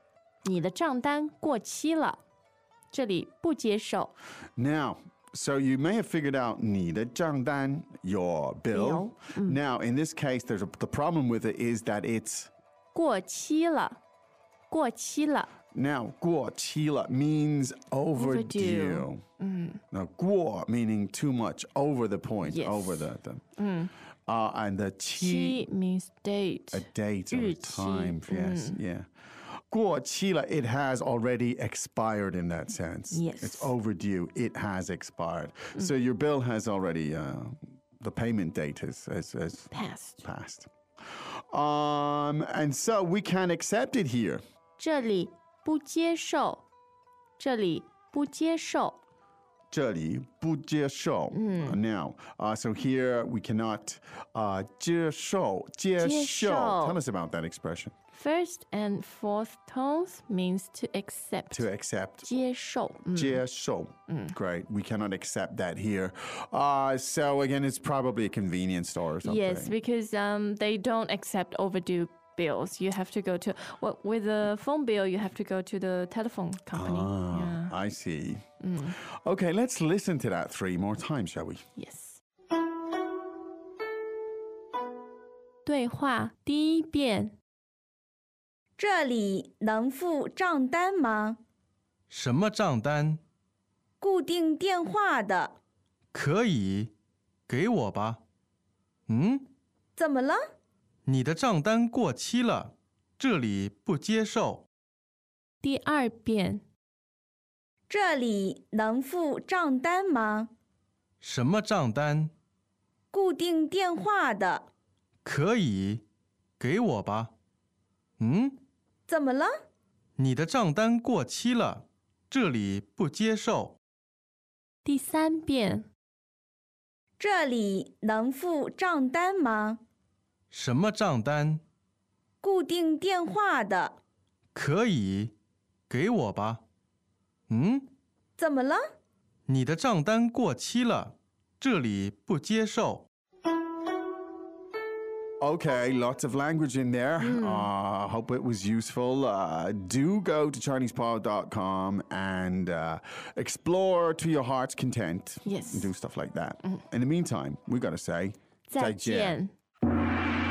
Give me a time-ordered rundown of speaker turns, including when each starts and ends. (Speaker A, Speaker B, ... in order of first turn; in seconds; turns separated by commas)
Speaker A: 0.4-2.2, Speaker A: 2.9-4.1, Speaker B: 4.6-12.5, Speaker A: 8.7-9.6, Speaker A: 12.9-14.0, Speaker A: 14.7-15.5, Speaker B: 15.7-19.2, Speaker A: 18.1-19.8, Speaker B: 19.9-23.4, Speaker A: 22.4-23.9, Speaker B: 24.3-25.7, Speaker A: 25.2-28.8, Speaker B: 26.7-29.1, Speaker B: 29.6-44.4, Speaker A: 33.1-33.7, Speaker A: 39.7-40.2, Speaker A: 44.8-46.6, Speaker A: 47.4-49.0, Speaker B: 49.7-57.9, Speaker A: 51.3-51.8, Speaker A: 56.0-57.0, Speaker A: 58.1-61.7, Speaker B: 61.5-62.4, Speaker A: 62.2-63.4, Speaker B: 63.1-69.7, Speaker A: 69.2-77.8, Speaker B: 76.7-78.4, Speaker A: 78.6-79.0, Speaker B: 79.0-81.6, Speaker A: 81.8-82.2, Speaker A: 85.7-87.3, Speaker C: 88.8-91.4, Speaker D: 92.1-93.2, Speaker C: 94.0-95.5, Speaker D: 96.1-96.9, Speaker D: 97.5-98.2, Speaker D: 99.1-99.5, Speaker C: 100.0-100.4, Speaker D: 101.1-104.7, Speaker A: 105.6-106.6, Speaker C: 107.9-110.5, Speaker D: 111.2-112.3, Speaker C: 113.1-114.7, Speaker D: 115.2-116.0, Speaker D: 116.6-117.3, Speaker D: 118.2-118.6, Speaker C: 119.1-119.5, Speaker D: 120.2-123.8, Speaker A: 124.8-125.9, Speaker C: 127.2-129.8, Speaker D: 130.5-131.6, Speaker C: 132.4-134.0, Speaker D: 134.6-135.3, Speaker D: 135.9-136.6, Speaker D: 137.5-137.9, Speaker C: 138.4-138.8, Speaker D: 139.5-143.1, Speaker B: 145.4-159.4, Speaker A: 147.2-147.7, Speaker A: 155.4-155.9, Speaker A: 158.7-159.5